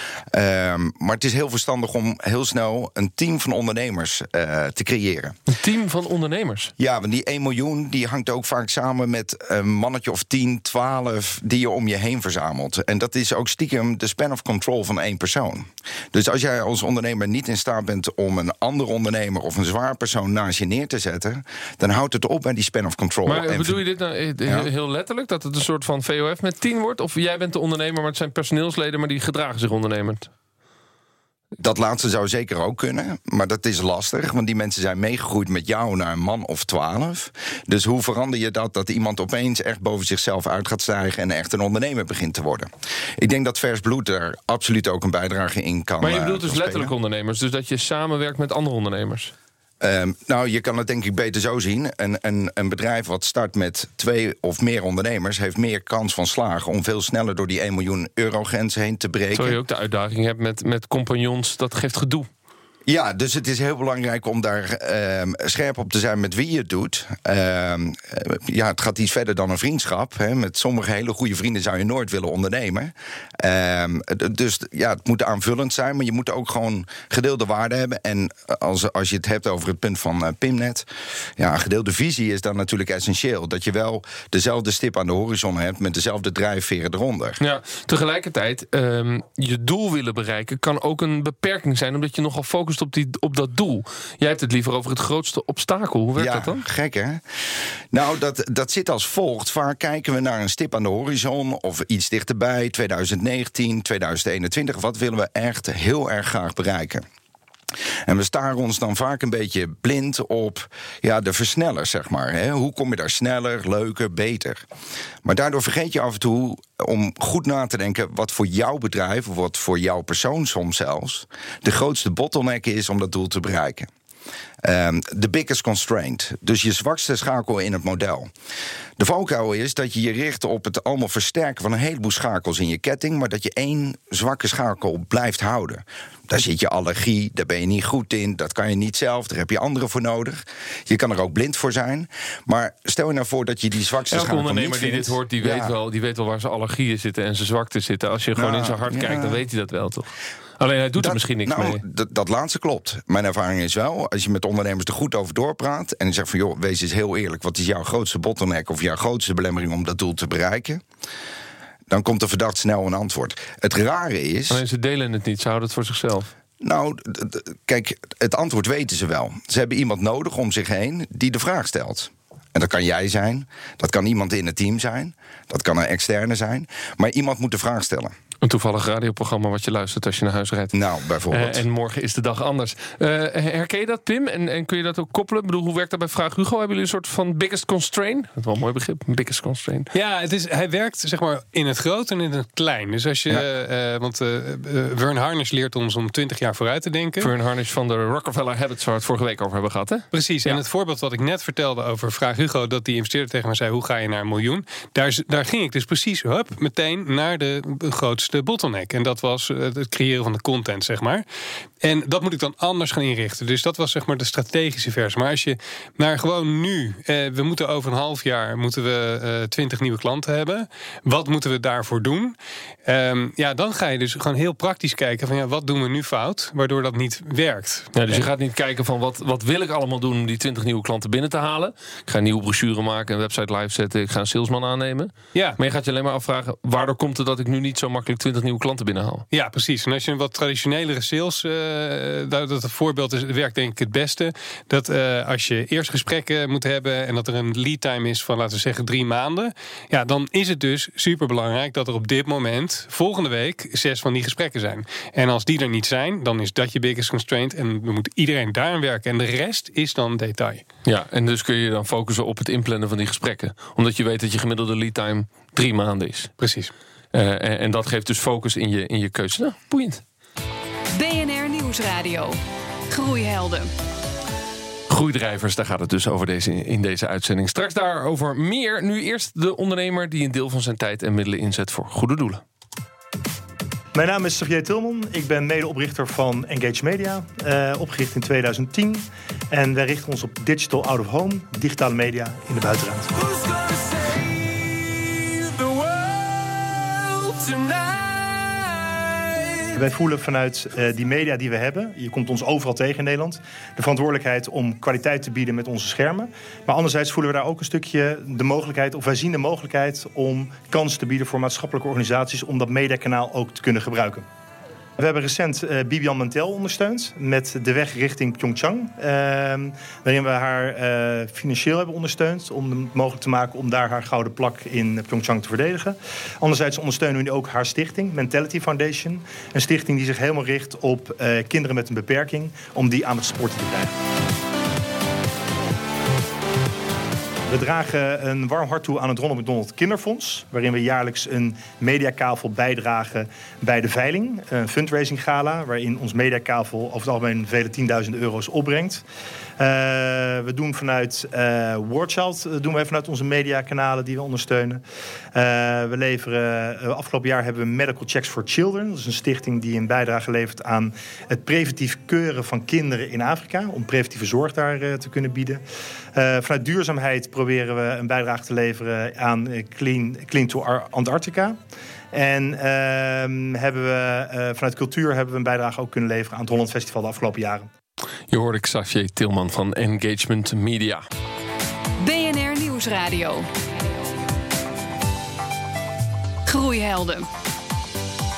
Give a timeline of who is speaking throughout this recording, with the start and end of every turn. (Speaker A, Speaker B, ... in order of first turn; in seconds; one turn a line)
Speaker A: 0.3-5.3
Speaker B: 5.5-6.7
Speaker A: 6.8-23.8
Speaker B: 23.2-30.3
Speaker A: 31.6-46.9
Speaker B: 46.0-49.3
Speaker A: 49.8-59.6
Speaker B: 59.3-62.3
Speaker A: 62.9-87.4
Speaker B: 87.4-96.6
Speaker A: 96.2-97.2
Speaker A: 97.9-107.0
Speaker A: 108.0-114.6
Speaker A: 115.2-123.9
Speaker A: 124.6-128.3
Speaker A: 129.0-145.7
Speaker B: 144.1-151.8
Speaker A: 148.3-149.4
Speaker A: 151.0-160.8
Speaker A: 161.9-164.6
Speaker B: 164.5-166.3
Speaker A: 166.6-178.1
Speaker B: 178.4-180.8
Speaker A: 180.7-181.6
Speaker B: 181.3-189.9
Speaker C: 189.9-197.3
Speaker B: 197.2-200.6
Speaker C: 200.1-211.2
Speaker C: 211.8-228.2
Speaker B: 227.9-239.2
Speaker C: 239.3-260.6
Speaker B: 260.9-266.3
Speaker C: 266.4-266.7
Speaker B: 267.1-270.0
Speaker D: 270.9-272.4
Speaker D: 272.9-273.7
Speaker B: 274.9-282.4
Speaker E: 283.9-293.1
Speaker E: 299.7-314.2
Speaker E: 315.0-333.9
Speaker E: 337.5-349.0
Speaker E: 349.6-354.8
Speaker E: 355.3-365.6
Speaker E: 366.1-371.6
Speaker E: 372.1-377.7
Speaker B: 378.3-381.0
Speaker D: 382.0-383.5
Speaker D: 386.5-387.3